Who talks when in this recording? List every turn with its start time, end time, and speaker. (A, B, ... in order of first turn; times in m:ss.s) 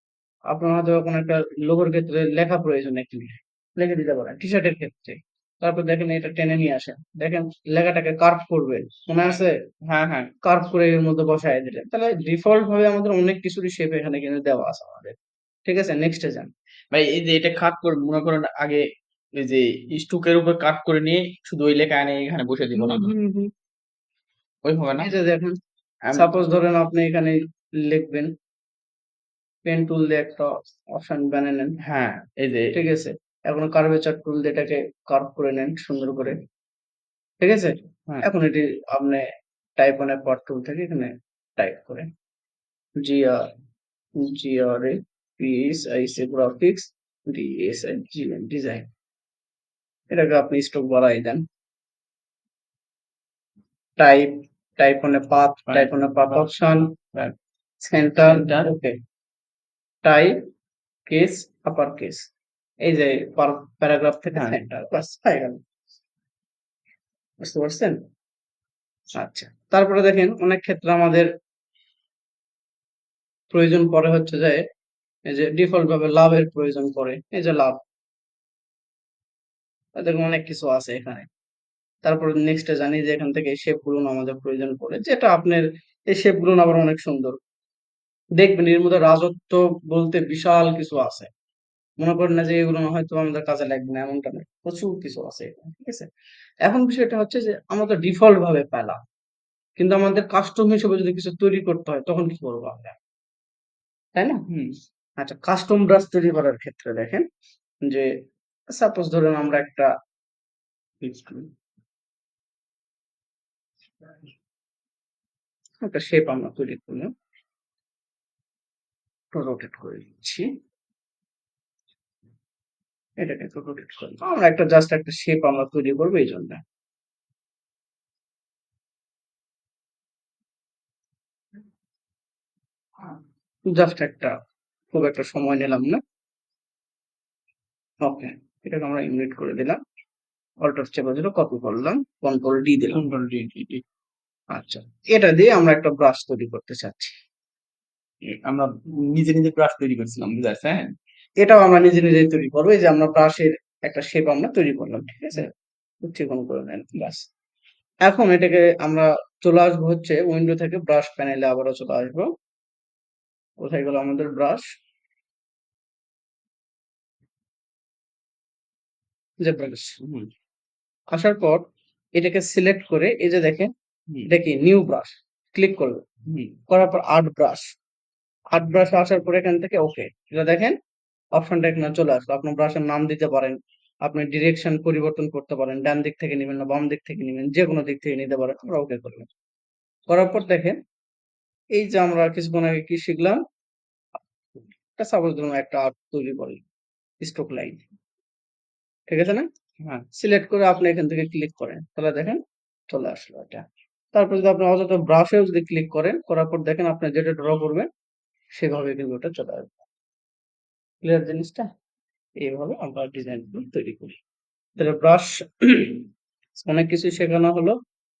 0:00.5-0:09.6 A
0:09.3-0:10.3 B
0:10.4-0:16.5 A
0:16.9-0:18.8 B
0:19.4-0:23.1 B
0:22.7-0:23.5 A
0:24.6-0:25.1 B
0:25.0-0:25.6 A
0:26.0-0:26.3 B
0:26.1-0:28.3 A
0:29.6-0:31.7 A
0:31.8-0:32.7 B
0:32.7-0:36.4 A
0:37.4-0:39.2 A
0:39.8-0:42.1 A
0:43.0-0:43.5 A
0:44.2-0:48.9 A
0:50.1-0:51.4 A
0:54.0-0:57.0 A
0:55.7-0:56.5 B
0:57.8-0:59.0 A
0:58.2-0:58.7 B
1:00.0-1:00.4 A
1:01.1-1:02.3 A
1:02.8-1:05.6 A
1:07.4-1:08.0 A
1:09.1-1:11.3 A
1:13.5-1:14.6 A
1:15.3-1:17.8 A
1:20.0-1:21.2 A
1:22.0-1:27.4 A
1:28.4-1:31.3 A
1:32.0-1:36.1 A
1:36.6-1:39.0 A
1:39.8-1:43.0 A
1:44.1-1:44.4 A
1:44.5-1:44.8 B
1:45.2-1:47.2 A
1:48.7-1:49.9 A
1:51.0-1:51.5 A
1:55.8-1:57.1 A
1:59.3-2:00.4 A
2:03.2-2:06.6 A
2:13.7-2:14.3 A
2:14.9-2:16.0 A
2:18.0-2:19.8 A
2:20.6-2:23.0 A
2:22.9-2:23.8 B
2:24.5-2:27.1 A
2:28.2-2:30.9 B
2:31.4-2:35.5 A
2:36.0-2:37.3 A
2:38.0-2:42.3 A
2:43.6-2:44.6 A
2:49.4-2:50.0 A
2:50.0-2:50.3 B
2:51.1-2:51.6 A
2:52.2-2:53.7 A
2:54.3-2:56.0 A
2:56.3-2:56.5 B
2:56.7-2:57.6 A
2:58.5-3:00.7 A
3:01.3-3:09.3 A
3:10.1-3:10.8 A
3:11.7-3:13.4 A
3:14.9-3:16.6 A
3:17.2-3:17.8 A
3:19.1-3:19.4 A
3:20.1-3:27.9 A
3:28.5-3:29.8 A
3:31.0-3:31.7 A
3:32.4-3:34.2 A
3:34.8-3:37.8 A